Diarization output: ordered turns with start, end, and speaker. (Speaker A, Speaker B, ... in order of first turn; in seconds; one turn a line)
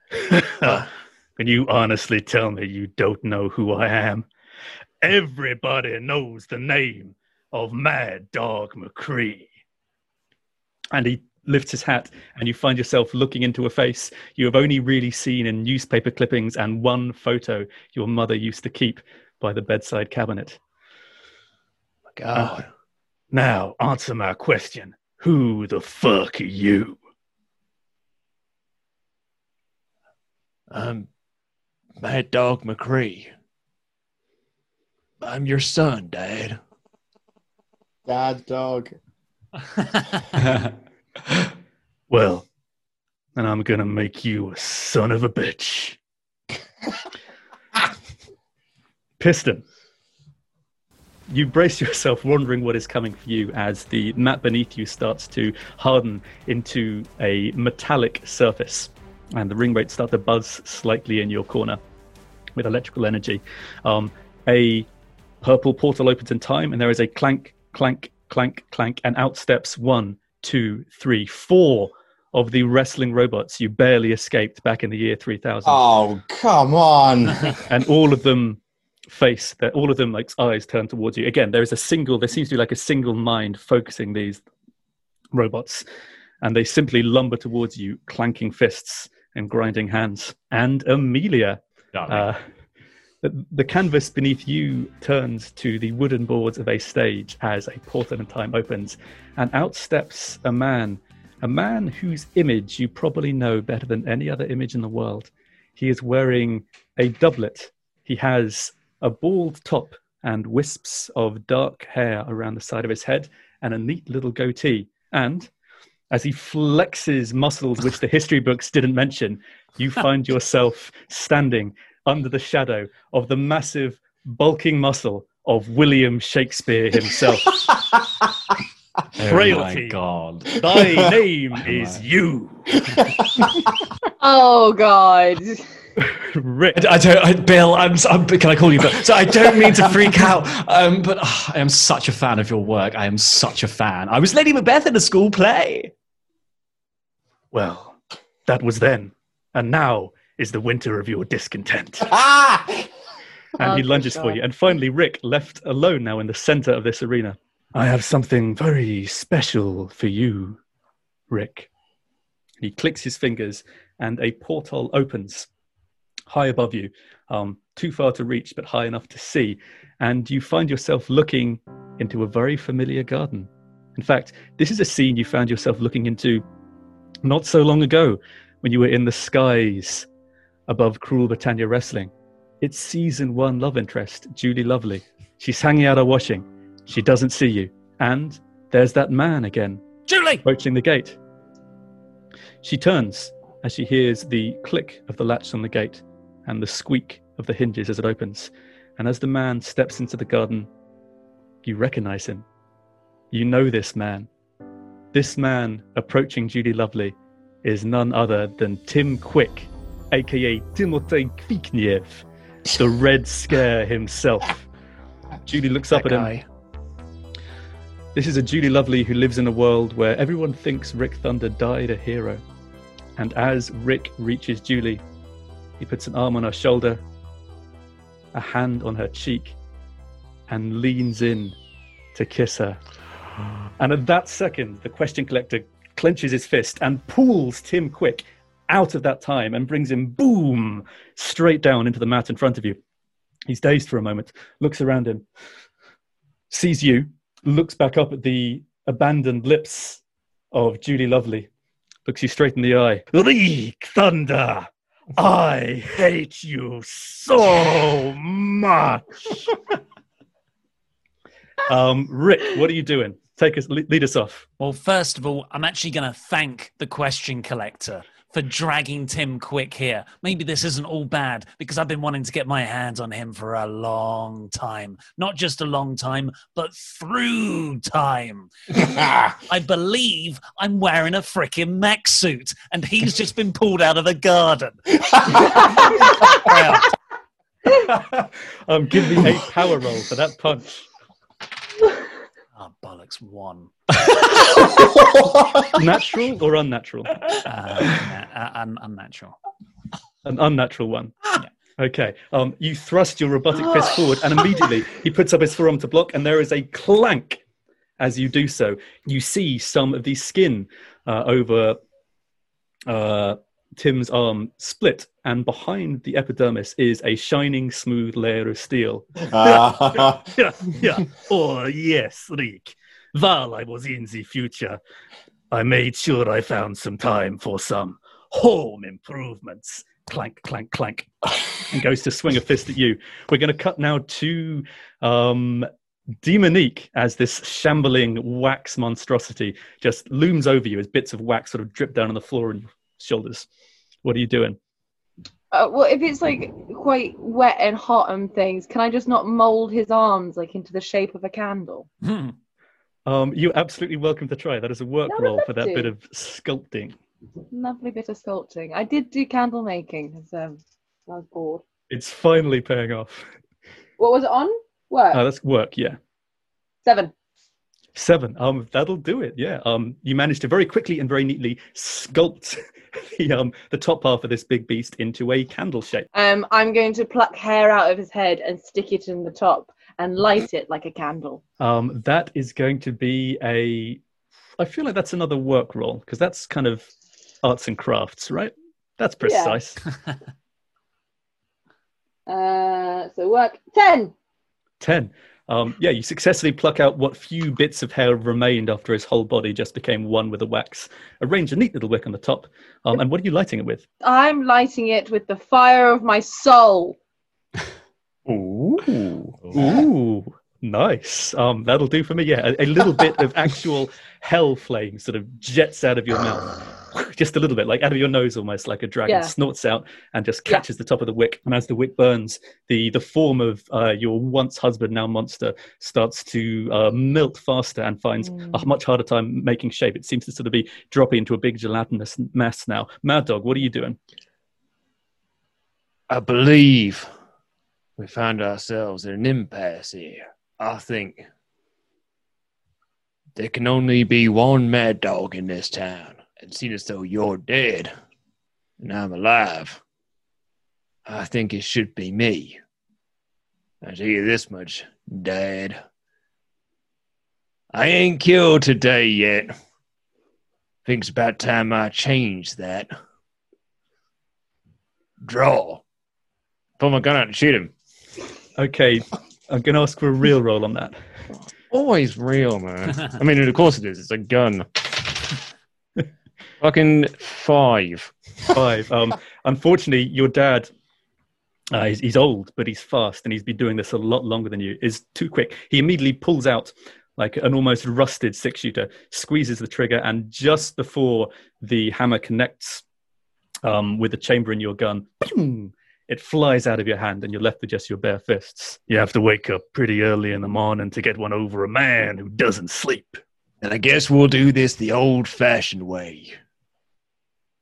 Speaker A: 0.3-0.8
Speaker B: 0.6-0.9
Speaker A: 1.4-4.3
Speaker A: 5.0-9.5
Speaker A: 10.9-20.6
Speaker B: 22.1-22.7
Speaker A: 23.3-27.0
Speaker B: 30.7-31.1
Speaker B: 32.0-33.3
Speaker B: 35.2-36.6
Speaker C: 38.0-38.9
Speaker A: 42.1-42.5
Speaker A: 43.4-46.0
Speaker A: 49.2-49.6
Speaker A: 51.3-61.8
Speaker A: 62.6-64.9
Speaker A: 65.4-75.8
Speaker C: 75.6-77.6
Speaker A: 77.6-84.4
Speaker A: 85.3-85.8
Speaker A: 86.4-92.4
Speaker D: 91.9-92.3
Speaker A: 93.2-115.5
Speaker A: 116.1-127.6
Speaker C: 127.6-128.2
Speaker D: 129.1-130.6
Speaker A: 129.2-130.0
Speaker A: 130.6-132.7
Speaker C: 130.7-131.0
Speaker D: 131.6-132.0
Speaker C: 132.9-133.7
Speaker E: 134.2-135.6
Speaker A: 136.0-136.8
Speaker D: 136.8-145.9
Speaker A: 147.5-152.1
Speaker C: 152.0-152.9
Speaker A: 153.6-160.6
Speaker E: 153.6-154.4
Speaker A: 161.3-161.7
Speaker A: 162.6-165.5
Speaker A: 166.3-176.4
Speaker A: 177.2-180.1
Speaker A: 180.7-189.8
Speaker F: 190.1-190.4
Speaker A: 190.4-191.2
Speaker A: 192.6-200.7
Speaker A: 201.6-202.4
Speaker A: 203.3-204.3
Speaker A: 205.1-214.6
Speaker A: 215.4-216.3
Speaker B: 215.9-216.4
Speaker A: 218.1-222.4
Speaker A: 223.2-225.0
Speaker A: 225.8-227.0
Speaker A: 228.3-229.5
Speaker A: 230.5-231.6
Speaker A: 232.1-232.8
Speaker A: 233.8-242.8
Speaker A: 243.5-245.2
Speaker A: 246.5-250.0
Speaker A: 250.5-251.5
Speaker A: 252.1-259.5
Speaker A: 261.7-264.4
Speaker F: 264.6-286.9
Speaker C: 278.8-279.3
Speaker C: 285.1-285.6
Speaker A: 287.7-290.9
Speaker F: 292.6-294.8
Speaker C: 294.7-295.7
Speaker A: 295.7-297.1
Speaker F: 297.4-299.4
Speaker A: 300.2-301.1
Speaker A: 301.8-307.4
Speaker A: 308.0-311.8
Speaker A: 312.9-324.8
Speaker C: 319.2-320.3
Speaker A: 325.5-331.1
Speaker A: 331.7-335.7
Speaker A: 336.2-343.5
Speaker A: 344.0-344.6
Speaker E: 345.5-351.9
Speaker F: 352.0-352.3
Speaker A: 353.1-357.0
Speaker E: 355.1-355.9
Speaker E: 357.5-361.6
Speaker A: 361.9-363.3
Speaker E: 364.0-365.2
Speaker A: 365.1-366.0
Speaker E: 366.8-367.1
Speaker A: 367.9-376.1
Speaker E: 376.1-381.4
Speaker A: 381.6-384.0
Speaker A: 384.6-386.9
Speaker A: 387.4-389.8
Speaker E: 389.2-389.6
Speaker E: 392.3-394.1
Speaker A: 394.8-403.8
Speaker E: 404.0-407.0
Speaker D: 409.4-409.7
Speaker A: 409.5-434.0
Speaker E: 419.1-419.3
Speaker E: 428.2-428.7
Speaker B: 436.1-437.1
Speaker B: 438.0-441.2
Speaker B: 443.3-447.9
Speaker B: 448.8-449.8
Speaker B: 451.1-452.6
Speaker B: 453.8-455.8
Speaker B: 457.7-459.5
Speaker B: 460.8-462.9
Speaker B: 465.2-465.8
Speaker B: 466.8-467.7
Speaker A: 468.6-471.0
Speaker B: 471.7-475.4
Speaker B: 476.6-478.1
Speaker A: 478.5-480.7
Speaker A: 481.7-492.8
Speaker A: 493.6-503.2
Speaker B: 503.6-506.4